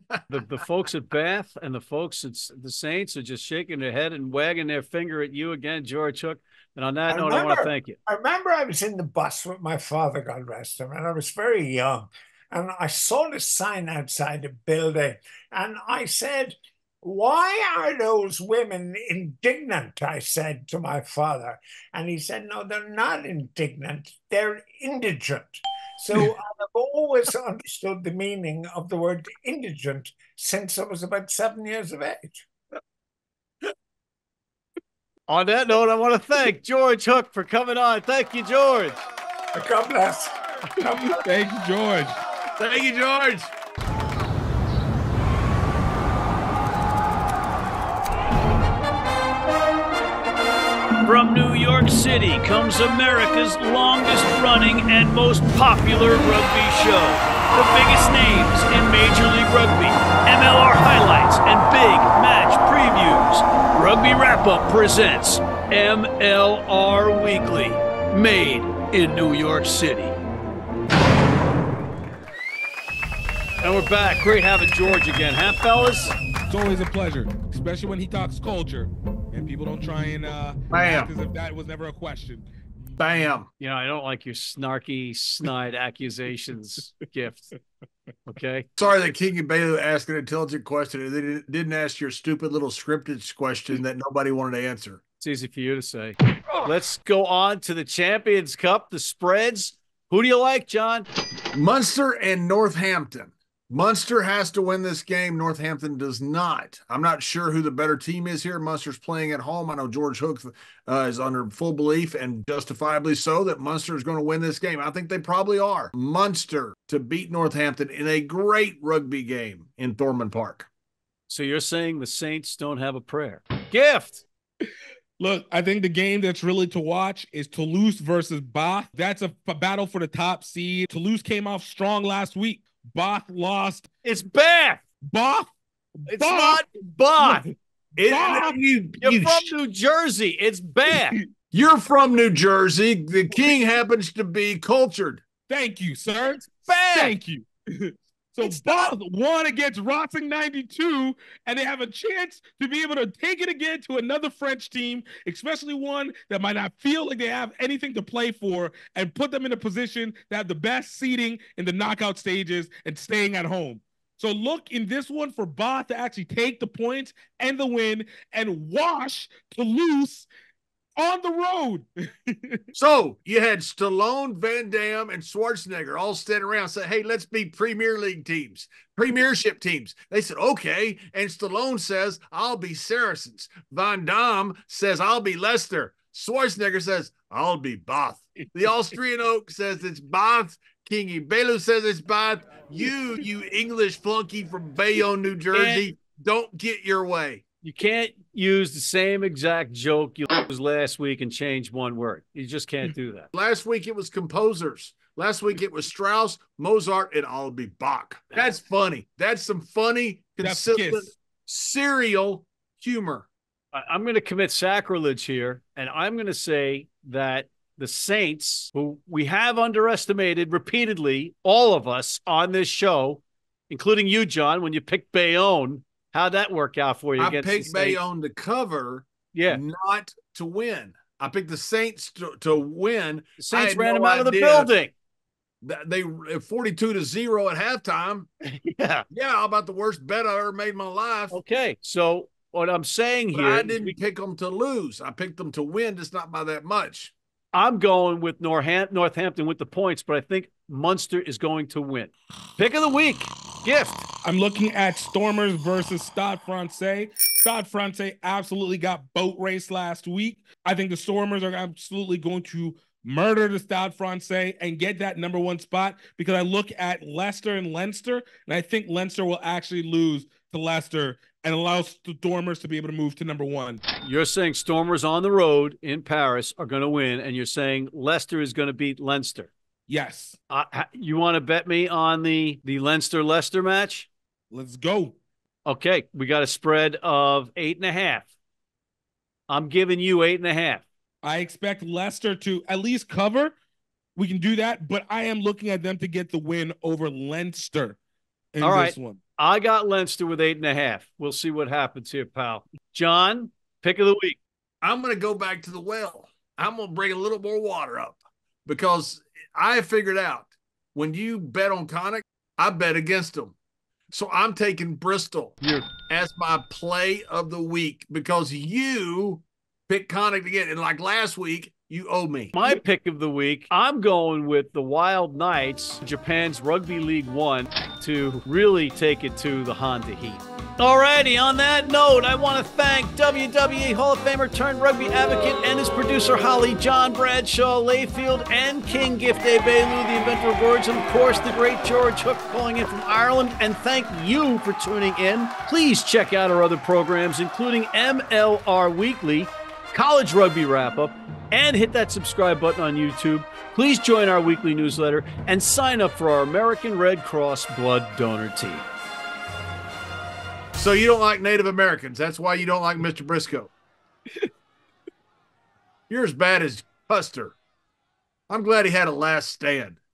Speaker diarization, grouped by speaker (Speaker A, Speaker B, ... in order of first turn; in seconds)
Speaker A: 0.3-8.0, 35.3-39.0, 51.0-70.1, 73.6-76.2, 83.6-87.5, 88.3-88.7, 95.2-101.1, 121.3-124.2, 134.0-134.8, 136.1-137.5, 139.0-141.2, 146.2-147.2, 148.4-148.9, 195.5-195.9, 197.6-203.3, 213.7-228.0, 229.3-229.6, 233.4-234.9, 238.5-239.1, 241.3-244.0, 247.5-254.1, 274.0-279.5, 280.5-284.1, 285.6-288.3, 289.5-290.8, 298.6-304.4, 315.6-315.9, 322.5-358.9
Speaker B: 7.1-32.5, 39.5-41.2
Speaker C: 41.0-42.2, 76.5-82.5, 125.2-133.9, 135.1-136.6, 137.2-137.5, 138.1-138.6, 145.5-170.3, 171.0-172.6, 210.4-211.1, 254.2-273.8, 279.9-280.4, 284.5-285.1, 291.2-293.5, 294.1-298.0, 298.5-299.2
Speaker D: 42.6-43.5, 80.7-81.1, 83.0-83.5, 88.8-95.0, 101.5-120.7, 138.0-139.5, 141.5-145.2, 172.7-197.4, 203.3-213.3, 227.2-234.7, 235.6-238.3, 239.1-241.4, 243.3-247.1, 304.8-313.6, 314.1-322.5, 360.8-363.7, 366.1-367.6, 368.5-370.0